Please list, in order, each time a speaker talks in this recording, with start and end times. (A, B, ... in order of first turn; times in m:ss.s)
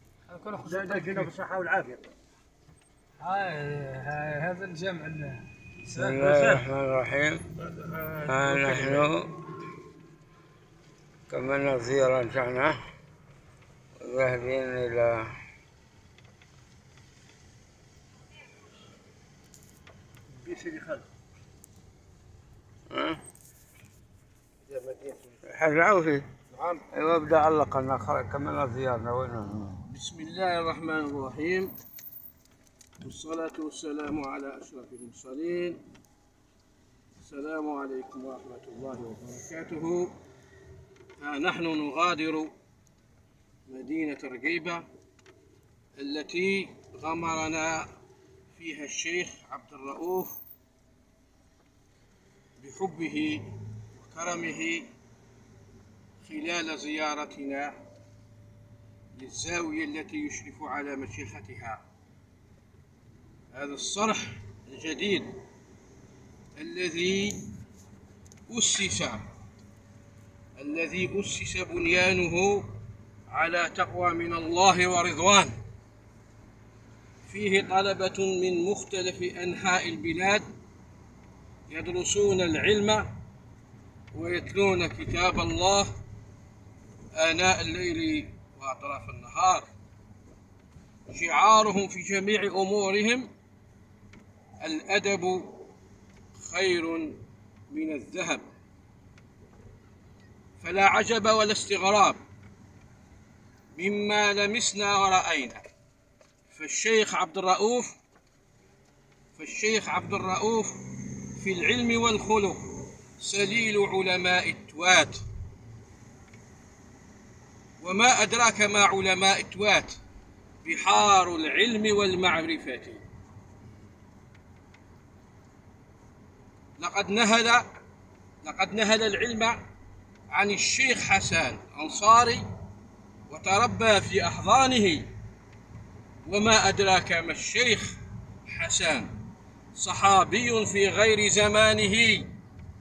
0:00.3-0:01.3 A
0:00.6-0:02.0 B
0:03.2-0:06.4 A
0:05.9-0:07.4 C
0:07.8-0:09.1 B
0:08.2-0:09.3 C
0:11.3-0:12.8 C
0:14.0-0:15.3 C
0:20.4-0:21.0 B
0:22.9-0:23.2 C
0:24.6-0:25.4 B
0:25.5-0:26.3 C
0:26.5-0:26.9 B
0:26.9-0:29.8 C
0:29.8-0:31.7 B
0:33.0-0:35.8 B
0:37.2-0:40.1 B
0:41.2-0:42.5 B
0:43.7-0:44.8 B
0:46.0-0:47.9 B
0:48.5-0:50.4 B
0:52.6-0:54.8 B
0:56.2-0:57.8 B
0:59.2-1:01.8 B
1:03.5-1:05.4 B
1:06.6-1:07.4 B
1:08.5-1:09.2 B
1:10.6-1:12.7 B
1:13.3-1:15.5 B
1:17.2-1:20.4 B
1:21.7-1:23.1 B
1:24.1-1:25.9 B
1:27.1-1:29.7 B
1:31.1-1:33.3 B
1:34.6-1:35.7 B
1:36.4-1:37.2 B
1:37.7-1:38.4 B
1:40.6-1:42.2 B
1:43.8-1:45.6 B
1:46.5-1:48.0 B
1:49.3-1:55.2 B
1:57.8-2:00.0 B
2:00.6-2:03.0 B
2:06.8-2:07.7 B
2:08.4-2:09.6 B
2:10.3-2:12.4 B
2:13.3-2:15.1 B
2:16.2-2:19.1 B
2:19.7-2:22.3 B